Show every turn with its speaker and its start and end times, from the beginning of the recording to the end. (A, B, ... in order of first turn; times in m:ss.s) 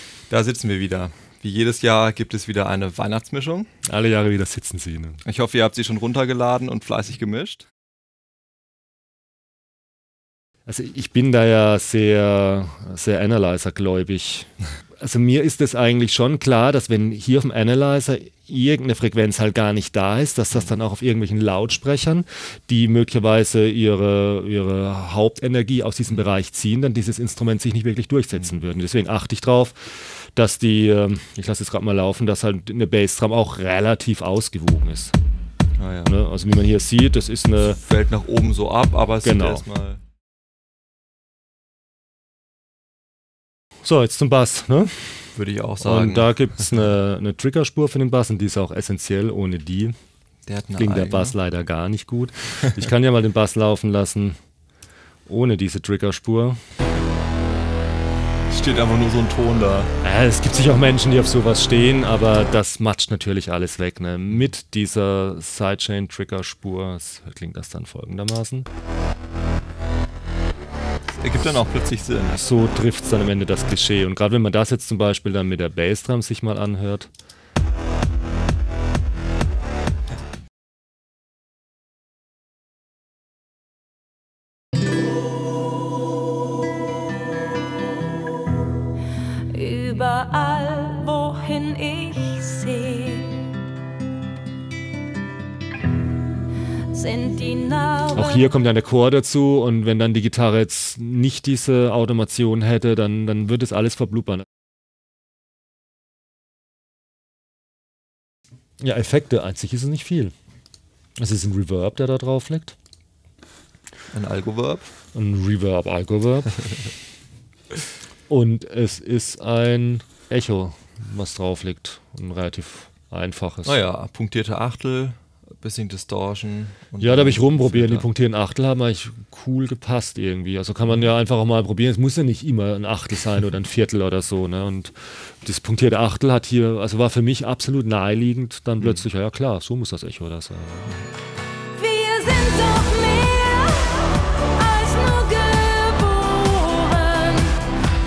0:00.3-0:03.7 A
0:03.8-0:05.2 B
0:05.2-0:07.6 A
0:10.6-0:35.2 B
0:35.8-0:36.1 A
0:36.0-0:37.8 B
0:37.8-0:40.0 A
0:39.2-0:39.6 B
0:43.8-0:49.9 B
0:45.3-0:46.5 A
0:50.4-0:51.3 A
0:50.8-0:54.4 B
0:55.2-0:56.6 B
0:58.5-0:59.9 A
1:00.0-1:08.7 B
1:11.1-1:12.4 A
1:12.3-1:17.1 B
1:29.5-1:33.5 C
1:36.9-1:38.5 C
1:38.1-1:44.4 B
1:48.8-1:50.3 B
1:51.2-1:52.7 B
1:54.1-1:54.9 A
1:55.1-1:56.8 B
1:58.3-2:03.8 B
2:03.6-2:08.0 A
2:07.0-2:21.0 B
2:21.7-2:27.7 C